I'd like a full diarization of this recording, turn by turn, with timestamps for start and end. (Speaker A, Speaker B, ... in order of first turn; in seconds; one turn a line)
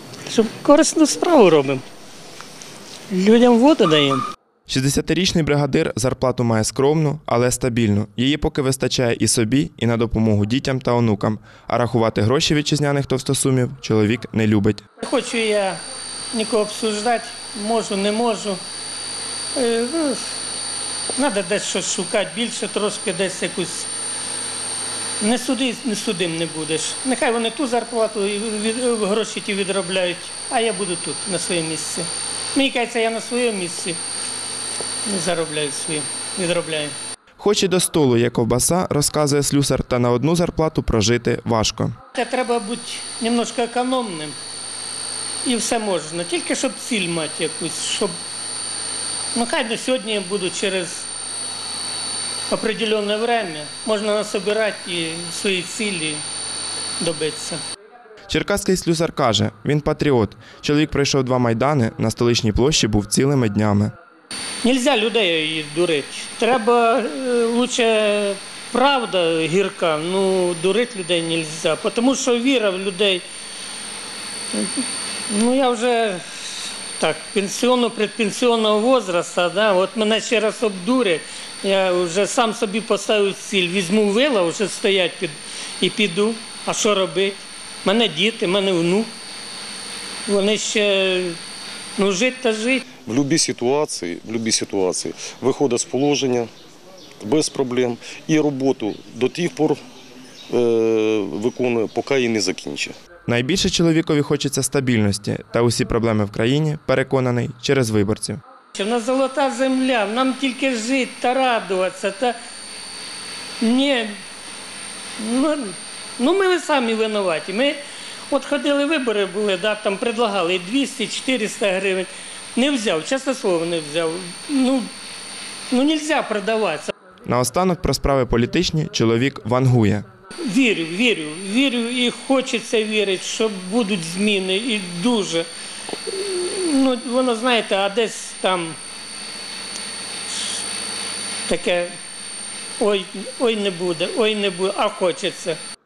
Speaker A: 0.3-1.8
Speaker A: 3.1-4.2
Speaker B: 4.7-14.8
Speaker A: 15.0-15.8
Speaker A: 16.3-18.6
Speaker A: 19.5-20.3
Speaker A: 21.1-23.9
Speaker A: 25.2-34.0
Speaker A: 35.0-36.9
Speaker B: 37.4-41.9
Speaker A: 42.1-44.3
Speaker A: 45.4-48.1
Speaker A: 49.3-51.0
Speaker A: 52.5-56.2
Speaker A: 57.0-57.6
Speaker B: 58.3-63.9
Speaker A: 64.6-73.2
Speaker A: 74.5-89.1
Speaker A: 90.3-91.4
Speaker A: 92.0-92.8
Speaker C: 93.0-96.5
Speaker C: 97.2-99.8
Speaker C: 100.5-102.9
Speaker B: 103.3-108.4
Speaker A: 108.7-112.3
Speaker A: 113.6-114.1
Speaker A: 115.2-117.8
Speaker A: 118.3-124.9
Speaker A: 125.7-126.9
Speaker B: 127.2-130.0
Speaker A: 130.4-135.5
Speaker A: 136.1-138.8
Speaker A: 141.5-141.9
Speaker A: 142.8-145.6